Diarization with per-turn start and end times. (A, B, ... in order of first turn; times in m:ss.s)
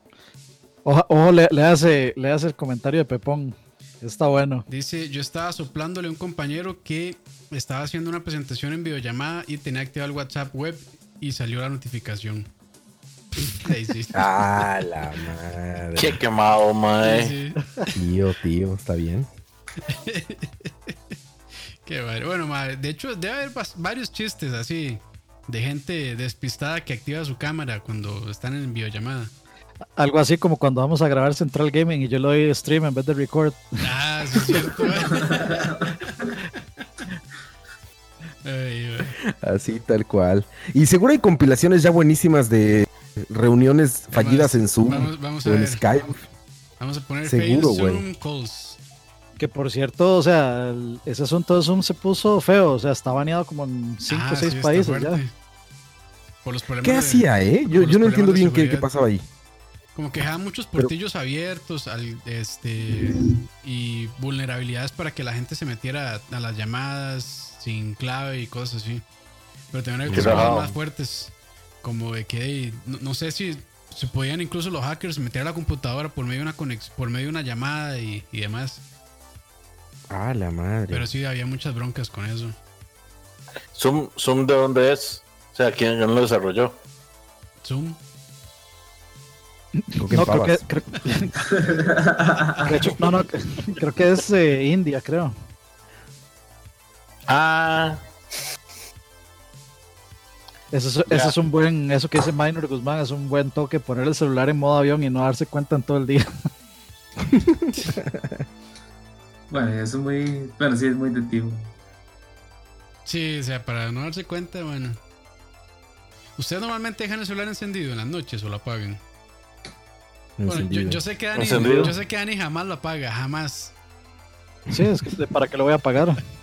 0:00.8-0:04.7 A
0:04.7-0:12.5 B
0:13.4-0:14.3 B
0:14.1-0:16.2 C
0:16.0-0:17.4 D
0:17.0-0:17.6 B
0:18.0-0:19.3 C
0:19.8-0:21.0 B
0:21.8-0:29.3 B
0:30.0-0:34.8 A
0:33.8-0:36.2 B
0:35.2-0:35.7 E
0:38.4-0:39.2 B
0:39.2-0:46.2 C
0:44.1-0:45.8 B
0:46.8-0:48.8 B
0:47.2-0:48.0 C
0:49.4-0:55.2 A
0:54.1-0:55.3 B
0:56.4-0:58.9 B
0:56.8-0:59.2 C
1:00.0-1:09.0 B
1:09.7-1:18.8 B
1:10.1-1:10.8 C
1:10.1-1:10.7 D
1:20.1-1:21.0 C
1:20.9-1:22.6 B
1:23.8-1:26.8 D
1:27.6-1:28.0 B
1:29.8-1:31.5 A
1:30.0-1:30.7 C
1:31.6-1:32.7 E
1:32.6-1:35.3 A
1:37.3-1:38.0 D
1:40.7-1:46.3 A
1:41.1-1:41.3 D
1:47.3-1:48.3 C
1:49.5-1:51.7 E
1:53.0-1:55.0 B
1:56.4-1:59.0 B
2:00.4-2:01.0 C
2:00.5-2:03.7 B
2:01.4-2:01.9 D
2:01.6-2:01.9 A
2:04.7-2:06.2 A